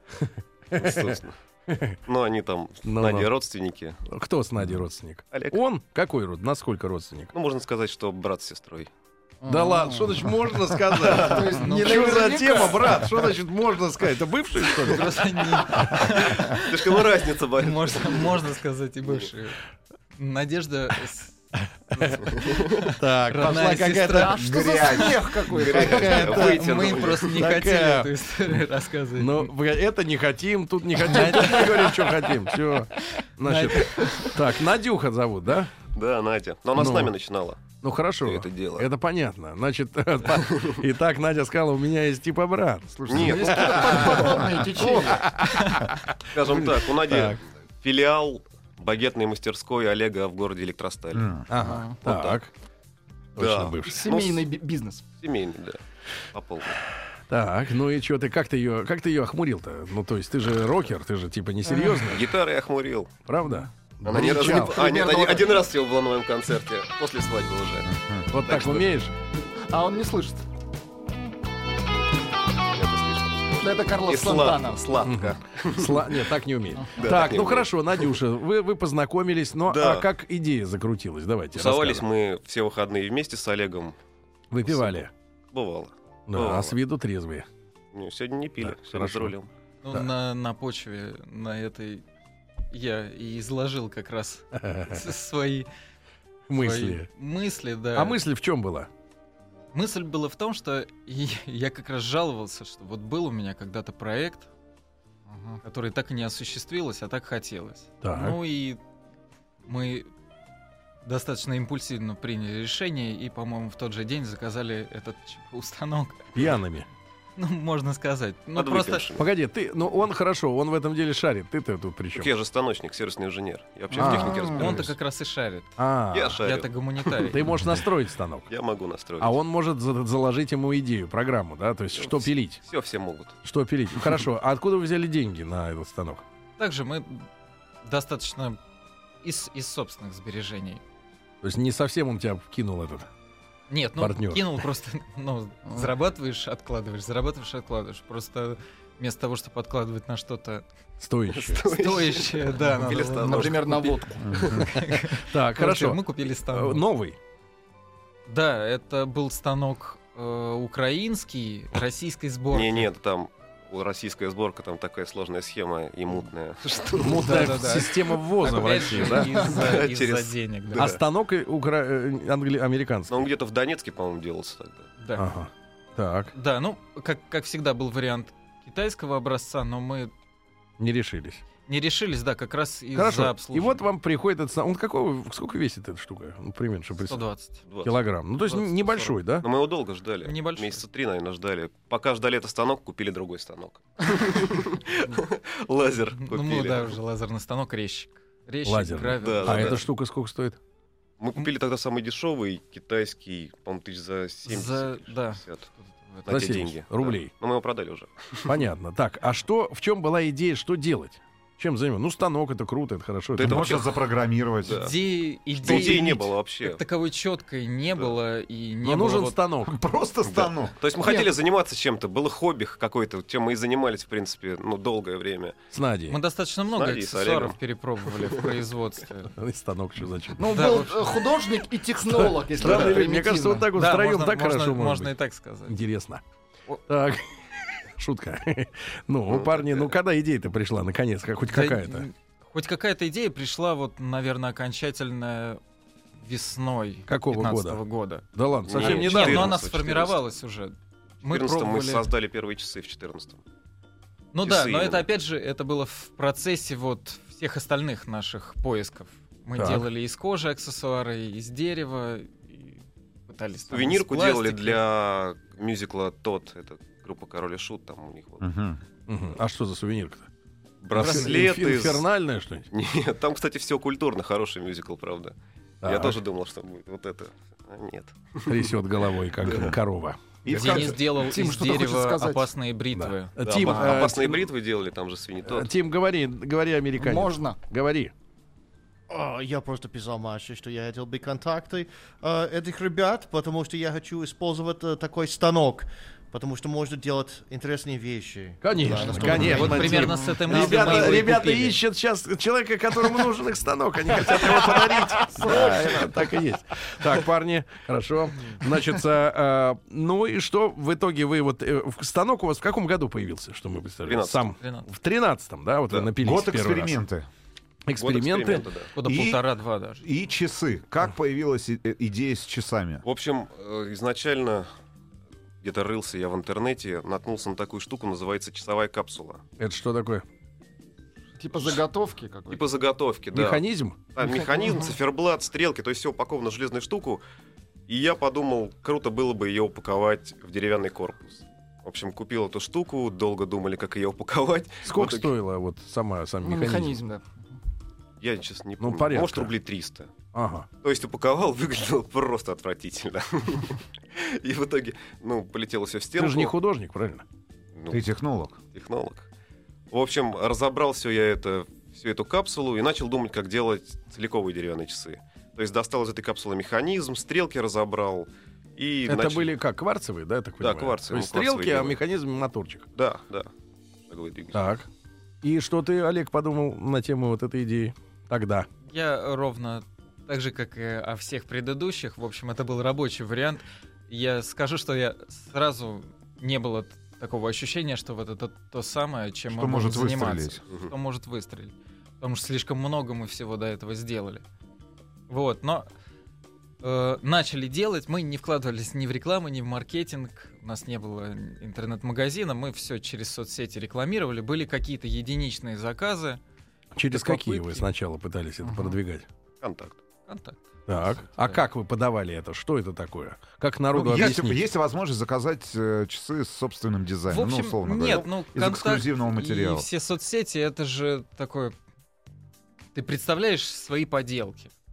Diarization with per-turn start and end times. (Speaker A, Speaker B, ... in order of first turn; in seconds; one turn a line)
Speaker A: 0.2-2.0
Speaker B: 0.8-1.4
Speaker B: 2.1-4.0
Speaker A: 2.8-3.3
Speaker A: 4.1-7.3
Speaker B: 5.3-5.6
Speaker B: 7.3-8.9
Speaker C: 9.4-13.3
Speaker A: 9.4-16.1
Speaker B: 11.1-11.3
Speaker D: 11.5-12.9
Speaker D: 14.8-17.0
Speaker B: 16.2-18.5
Speaker D: 17.6-19.6
Speaker B: 19.1-19.3
Speaker D: 20.2-21.4
Speaker A: 21.9-24.3
Speaker D: 21.9-24.4
Speaker B: 22.4-22.7
Speaker C: 23.3-26.5
Speaker E: 24.3-25.8
Speaker B: 25.5-27.6
Speaker D: 25.7-29.5
Speaker A: 26.1-28.1
Speaker A: 29.2-35.7
Speaker D: 31.1-31.9
Speaker D: 33.5-34.3
Speaker B: 35.9-37.6
Speaker A: 36.8-37.1
Speaker A: 37.8-47.4
Speaker B: 38.2-38.9
Speaker C: 43.0-45.3
Speaker B: 43.1-44.8
Speaker B: 46.3-51.4
Speaker E: 51.1-51.5
Speaker A: 51.5-52.5
Speaker C: 51.6-52.0
Speaker B: 52.0-52.4
Speaker A: 53.4-54.0
Speaker B: 53.4-54.5
Speaker C: 53.9-55.1
Speaker B: 55.2-55.8
Speaker B: 56.3-56.8
Speaker A: 57.3-62.3
Speaker C: 61.7-62.0
Speaker B: 62.1-63.1
Speaker A: 63.3-64.8
Speaker C: 63.5-65.7
Speaker B: 64.0-67.9
Speaker E: 67.9-68.3
Speaker A: 68.3-69.1
Speaker B: 68.5-68.9
Speaker C: 69.7-70.5
Speaker B: 72.7-76.3
Speaker C: 73.6-75.0
Speaker A: 75.0-82.1
Speaker C: 76.8-77.0
Speaker B: 77.0-78.2
Speaker B: 79.7-80.1
Speaker B: 81.5-84.0
Speaker A: 84.5-85.1
Speaker B: 84.7-86.8
Speaker A: 86.3-87.5
Speaker B: 87.9-89.5
Speaker A: 88.6-89.3
Speaker D: 89.8-92.0
Speaker D: 92.7-95.7
Speaker A: 94.5-95.1
Speaker A: 96.5-97.1
Speaker D: 96.5-98.2
Speaker A: 98.0-98.9
Speaker D: 99.7-104.5
Speaker C: 105.3-105.6
Speaker D: 105.6-108.8
Speaker A: 108.0-108.4
Speaker D: 109.7-110.1
Speaker D: 111.0-116.5
Speaker A: 116.3-116.9
Speaker D: 117.4-119.1
Speaker B: 118.5-119.3
Speaker A: 119.2-122.3
Speaker B: 122.1-125.0
Speaker A: 123.9-124.9
Speaker D: 124.0-125.8
Speaker C: 124.3-124.7
Speaker A: 125.8-126.4
Speaker B: 126.1-127.8
Speaker D: 126.4-127.4
Speaker A: 127.3-128.5
Speaker B: 128.5-129.4
Speaker A: 129.2-132.6
Speaker B: 132.0-133.4
Speaker A: 133.4-136.2
Speaker D: 136.6-137.3
Speaker D: 137.8-138.6
Speaker D: 139.2-140.8
Speaker A: 141.4-143.1
Speaker D: 143.7-150.7
Speaker A: 144.0-144.6
Speaker A: 151.0-151.6
Speaker B: 151.3-154.7
Speaker D: 151.7-156.8
Speaker C: 152.9-154.4
Speaker E: 154.2-154.6
Speaker A: 154.8-157.2
Speaker D: 158.3-162.9
Speaker B: 162.5-167.9
Speaker A: 167.0-169.4
Speaker D: 167.2-170.9
Speaker B: 168.6-171.0
Speaker A: 170.8-173.1
Speaker B: 173.1-174.9
Speaker D: 175.0-175.3
Speaker A: 175.2-176.3
Speaker D: 176.3-180.1
Speaker A: 180.8-181.4
Speaker D: 181.7-183.8
Speaker A: 182.9-187.3
Speaker D: 187.0-187.6
Speaker B: 187.7-196.9
Speaker A: 187.8-189.5
Speaker D: 190.2-190.8
Speaker D: 196.2-199.8
Speaker A: 198.7-200.6
Speaker B: 199.2-199.8
Speaker B: 201.2-205.7
Speaker D: 204.5-206.3
Speaker B: 206.2-208.6
Speaker A: 206.3-207.3
Speaker A: 208.5-213.8
Speaker B: 213.4-214.0
Speaker E: 213.4-214.9
Speaker B: 214.7-215.0
Speaker D: 214.7-219.4
Speaker B: 215.5-216.8
Speaker E: 215.7-215.9
Speaker A: 218.8-219.8
Speaker E: 219.7-220.8
Speaker B: 220.2-225.6
Speaker C: 221.0-221.3
Speaker A: 225.7-226.2
Speaker D: 226.1-229.3
Speaker B: 226.7-228.4
Speaker A: 229.3-230.6
Speaker C: 230.3-233.7
Speaker D: 230.5-231.1
Speaker A: 232.1-235.2
Speaker B: 232.7-232.9
Speaker D: 233.7-235.8
Speaker A: 235.7-236.2
Speaker A: 236.9-242.1
Speaker B: 239.3-240.0
Speaker D: 241.5-245.6
Speaker D: 246.2-252.1
Speaker A: 247.1-247.8
Speaker A: 248.3-249.6
Speaker B: 248.7-250.2
Speaker B: 251.2-253.4
Speaker D: 254.3-264.8
Speaker B: 254.4-255.1
Speaker A: 259.6-259.9
Speaker B: 263.7-268.5
Speaker E: 268.4-268.8
Speaker A: 269.1-270.3
Speaker B: 270.8-272.1
Speaker A: 270.9-272.7
Speaker D: 271.0-271.4
Speaker B: 272.7-278.8
Speaker A: 275.8-276.2
Speaker A: 278.4-280.2
Speaker B: 279.4-279.8
Speaker E: 280.5-281.0
Speaker D: 280.5-284.1
Speaker C: 280.5-282.5
Speaker A: 282.9-284.5
Speaker B: 283.4-285.7
Speaker A: 285.5-288.1
Speaker C: 287.0-287.6
Speaker F: 289.1-300.1
Speaker A: 298.6-317.0
Speaker D: 299.1-301.8
Speaker C: 305.3-306.2
Speaker B: 314.1-314.6
Speaker D: 314.6-314.9
Speaker E: 316.2-317.3
Speaker A: 317.9-318.7
Speaker B: 318.0-318.9
Speaker D: 318.9-320.1
Speaker E: 319.0-319.4
Speaker E: 320.0-323.1
Speaker B: 323.0-324.7
Speaker B: 325.6-329.4
Speaker A: 329.6-330.2
Speaker C: 331.4-332.7
Speaker B: 331.5-331.8
Speaker B: 332.5-337.2
Speaker A: 333.3-334.1
Speaker C: 334.4-334.8
Speaker B: 337.9-345.3
Speaker A: 344.8-347.0
Speaker C: 346.4-347.5
Speaker B: 348.2-350.1
Speaker A: 348.8-349.5
Speaker A: 350.3-350.7
Speaker B: 350.8-356.5
Speaker A: 356.2-357.2
Speaker B: 357.8-358.1
Speaker E: 357.9-358.6
Speaker B: 358.7-359.3
Speaker B: 359.9-369.6
Speaker A: 369.1-372.9
Speaker B: 370.6-372.0
Speaker B: 372.9-373.5
Speaker B: 374.1-374.7
Speaker A: 374.5-374.9
Speaker A: 375.4-378.7
Speaker D: 378.9-394.4
Speaker E: 389.5-390.6
Speaker D: 395.3-395.9
Speaker D: 396.8-406.4
Speaker A: 406.9-409.3
Speaker D: 407.1-407.9
Speaker C: 408.6-409.0
Speaker B: 409.6-410.0
Speaker D: 410.3-411.6
Speaker A: 410.9-414.7
Speaker E: 413.9-419.9
Speaker D: 417.3-421.8
Speaker D: 422.9-424.7